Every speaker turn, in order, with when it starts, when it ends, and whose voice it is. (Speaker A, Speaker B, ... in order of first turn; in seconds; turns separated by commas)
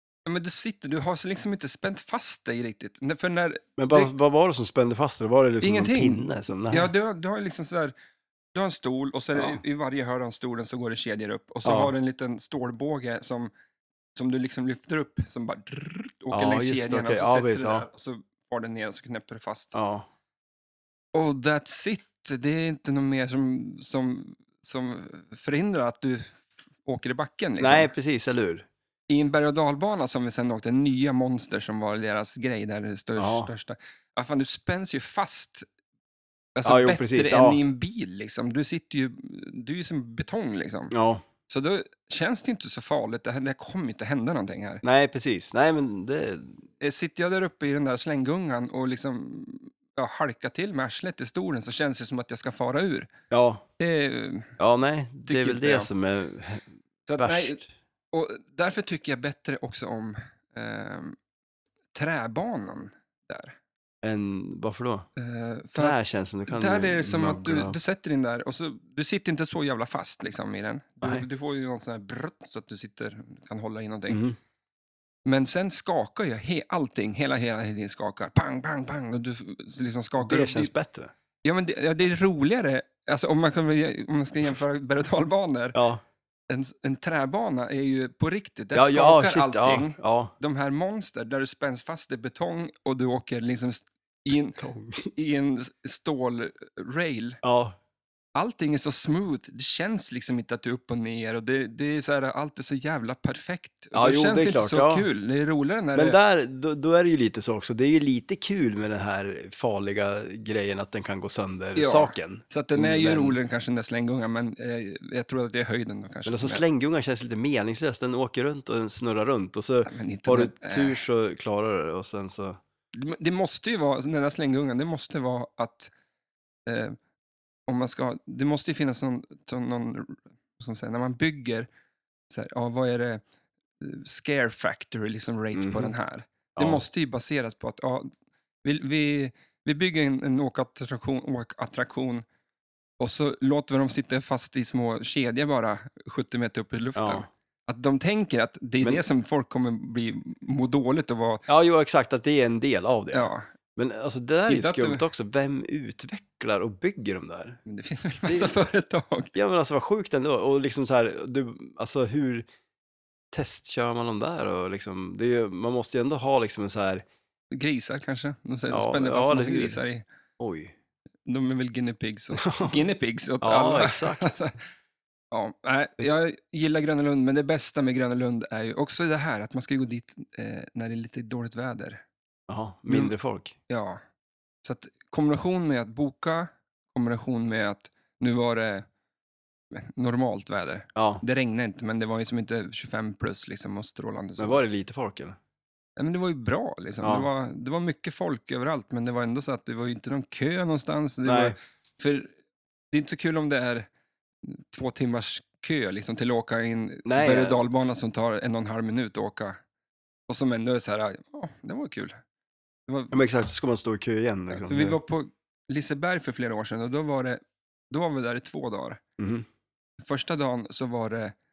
Speaker A: 0.2-4.1, Speaker B: 3.8-6.9, Speaker A: 5.6-7.9, Speaker A: 8.5-13.5, Speaker B: 9.3-9.6, Speaker B: 11.6-11.9, Speaker A: 14.2-19.8, Speaker B: 16.3-17.9, Speaker B: 19.7-20.1, Speaker A: 21.1-27.9, Speaker B: 27.6-28.7, Speaker A: 29.1-35.6, Speaker B: 33.2-33.5, Speaker A: 36.5-40.9, Speaker B: 36.6-37.6, Speaker B: 40.9-41.2, Speaker A: 41.5-44.8, Speaker B: 44.8-46.6, Speaker A: 46.8-53.1, Speaker B: 53.3-53.6, Speaker A: 53.8-54.6, Speaker B: 54.6-56.6, Speaker A: 55.3-55.9, Speaker A: 57.1-57.6, Speaker B: 57.2-57.7, Speaker A: 58.1-61.1, Speaker A: 61.9-63.6, Speaker B: 64.0-65.1, Speaker A: 65.2-66.0, Speaker B: 65.7-67.8, Speaker A: 66.5-74.2, Speaker B: 74.1-74.4, Speaker A: 75.2-80.7, Speaker B: 80.2-81.1, Speaker A: 81.4-85.8, Speaker B: 85.7-86.0, Speaker A: 86.5-94.6, Speaker B: 88.7-90.3, Speaker B: 94.5-95.1, Speaker A: 95.1-97.4, Speaker B: 97.4-97.8, Speaker A: 98.3-106.2, Speaker B: 103.9-105.1, Speaker B: 105.9-113.4, Speaker A: 111.8-116.6, Speaker B: 116.2-122.6, Speaker A: 119.8-121.0, Speaker A: 122.9-125.9, Speaker A: 126.7-127.0, Speaker A: 127.7-131.7, Speaker A: 132.3-133.2, Speaker A: 133.8-138.1, Speaker B: 135.5-135.9, Speaker B: 136.6-136.8, Speaker A: 138.6-142.2, Speaker A: 143.0-151.4, Speaker B: 146.9-147.3, Speaker B: 151.5-157.6, Speaker A: 153.1-153.5, Speaker A: 154.5-155.0, Speaker A: 157.7-159.3, Speaker B: 158.3-158.6, Speaker B: 159.3-162.5, Speaker B: 163.3-167.0, Speaker A: 167.5-170.0, Speaker B: 168.7-169.8, Speaker B: 170.4-170.7, Speaker A: 171.2-174.6, Speaker B: 172.4-172.8, Speaker B: 173.4-174.3, Speaker A: 175.3-182.0, Speaker B: 182.5-183.5, Speaker A: 182.9-183.1, Speaker A: 183.7-184.0, Speaker A: 184.6-188.8, Speaker A: 189.7-194.6, Speaker B: 190.9-191.2, Speaker B: 194.4-195.4, Speaker A: 196.0-202.3, Speaker B: 197.0-197.3, Speaker B: 201.2-201.6, Speaker A: 202.9-203.9, Speaker A: 204.4-209.6, Speaker B: 207.0-207.6, Speaker A: 210.3-212.2, Speaker A: 212.9-213.2, Speaker B: 213.1-215.0, Speaker A: 214.5-217.4, Speaker A: 217.9-219.0, Speaker B: 219.2-219.4, Speaker A: 220.0-221.3